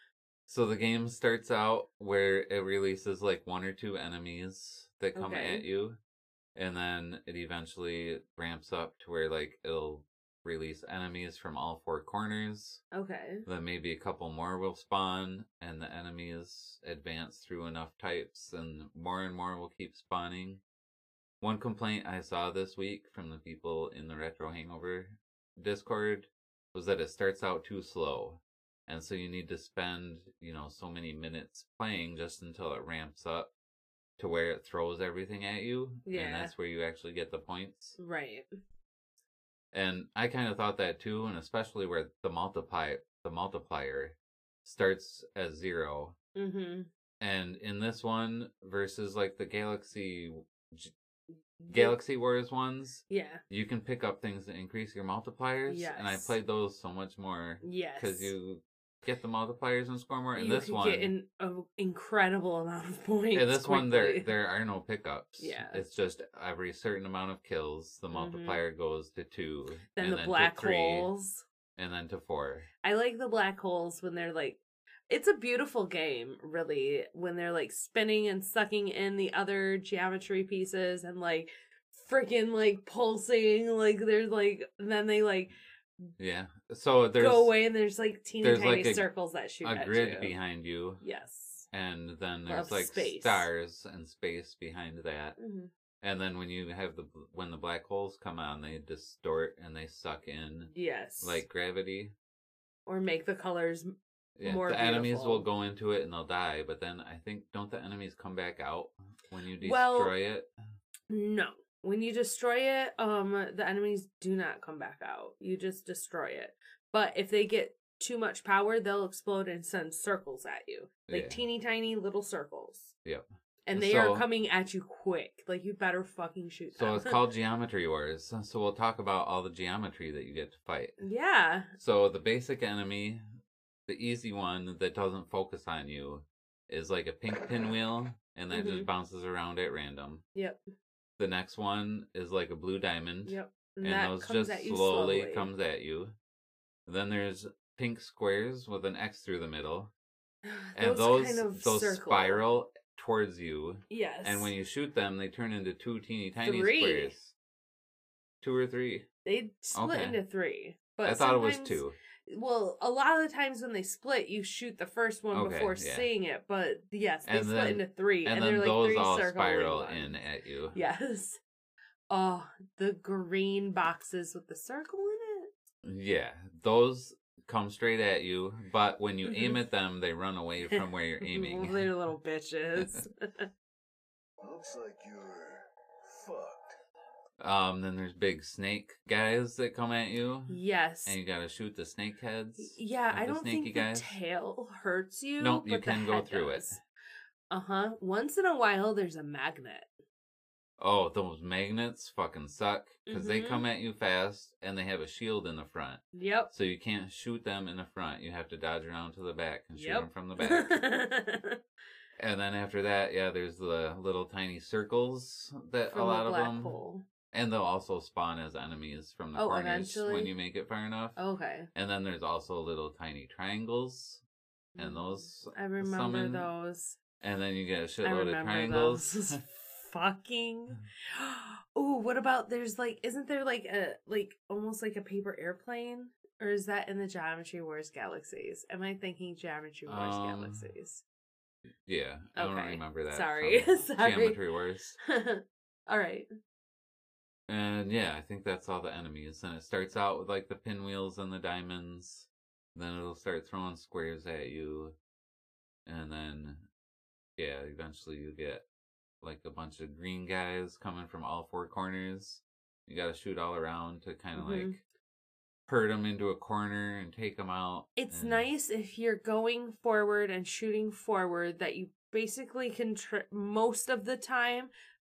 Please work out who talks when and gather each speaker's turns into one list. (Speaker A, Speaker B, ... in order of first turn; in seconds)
Speaker A: 0.5-6.0, 6.5-12.8, 13.4-20.6, 21.4-33.5, 34.2-38.0, 39.7-46.1, 47.2-50.9, 51.7-61.1, 63.3-71.1, 71.8-72.7, 86.2-87.5, 88.4-89.1, 89.6-91.0, 91.7-95.4, 96.0-102.1, 104.3-110.5, 121.1-121.4, 123.0-124.2, 126.7-131.0, 131.8-133.2, 133.9-140.2, 141.2-146.1, 146.9-149.9, 150.8-157.3, 158.4-159.1, 159.7-160.2, 161.0-161.9, 165.3-166.1, 167.2-170.8, 175.8-181.9, 187.4-194.1, 195.4-196.8, 200.8-210.7, 212.2-216.8, 217.3-221.2, 221.7-224.2, 224.8-226.5, 227.2-229.4, 239.8-240.7, 241.8-245.0, 247.5-254.9, 255.8-256.7, 257.4-258.6, 259.2-264.8, 265.7-268.4
Speaker B: 5.1-5.6, 12.9-13.4, 36.0-36.5, 38.0-38.5, 46.4-46.9, 51.6-52.0, 53.1-53.4, 55.7-56.3, 57.6-58.3, 60.3-64.3, 65.4-65.8, 68.1-68.6, 70.0-71.4, 72.8-85.5, 87.2-90.3, 91.0-91.7, 92.5-93.5, 95.4-95.7, 100.7-101.4, 102.8-103.9, 104.4-105.5, 109.6-110.2, 111.1-122.9, 123.7-127.2, 131.0-131.7, 138.5-138.9, 143.2-145.5, 150.4-152.4, 153.9-154.5, 156.4-157.1, 159.2-171.4, 172.1-175.5, 179.2-179.6, 181.2-183.5, 190.5-191.2, 192.6-196.8, 197.5-199.9, 203.1-203.7, 206.1-206.5, 209.7-211.6, 215.9-217.0, 219.3-220.3, 221.2-221.7, 224.7-227.0, 228.0-241.0, 242.3-244.4, 245.0-246.3, 264.3-264.8, 267.9-274.7
Speaker C: 184.4-186.8